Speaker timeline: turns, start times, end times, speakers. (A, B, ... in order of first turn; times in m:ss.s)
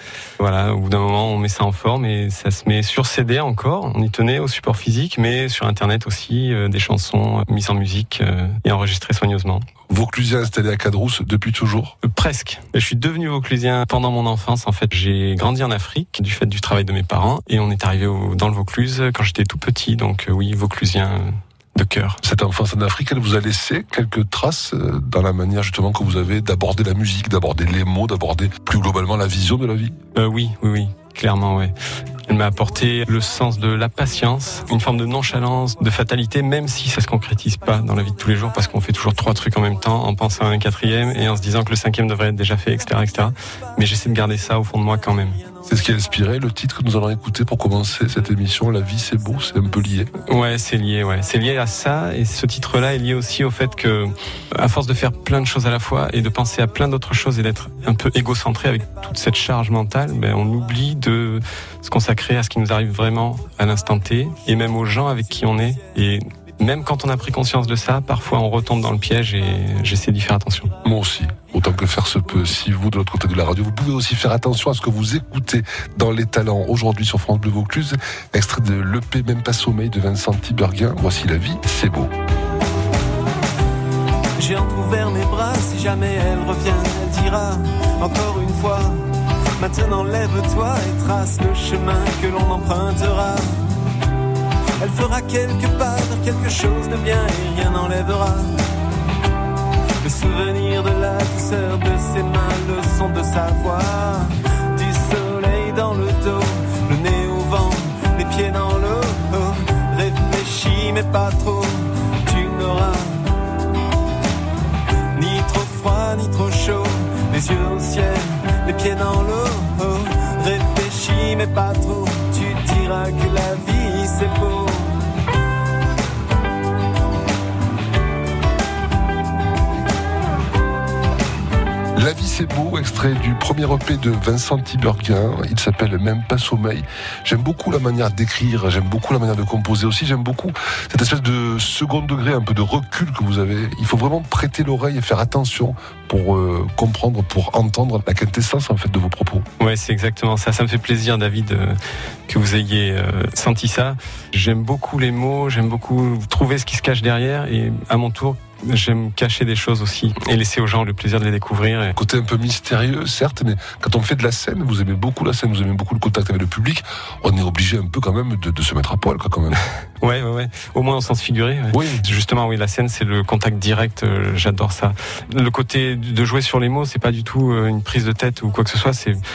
0:00.4-0:09.6 A
0:09.9-0:11.9 B
0:12.0-0:22.2 A
0:22.2-0:30.0 B
0:30.1-0:31.7 A
0:32.3-0:45.4 A
0:45.6-0:50.1 B
0:50.2-1:10.7 A
1:10.8-1:22.1 B
1:24.4-1:33.8 C
1:25.9-1:26.6 A
1:30.0-1:31.9 A
1:32.4-1:33.2 A
1:34.8-1:38.7 C
1:35.2-1:38.2 A
1:40.0-1:40.9 A
1:40.0-1:44.9 C
1:41.5-1:44.0 A
1:44.7-1:46.4 A
1:45.8-1:53.3 C
1:47.0-1:51.6 A
1:52.2-1:52.8 A
1:55.2-1:56.3 A
1:55.2-2:05.0 C
1:57.2-1:58.0 A
2:12.0-2:29.4 B
2:29.6-2:42.0 A
2:42.0-2:49.6 B
2:50.0-2:59.2 A
2:51.7-2:52.0 B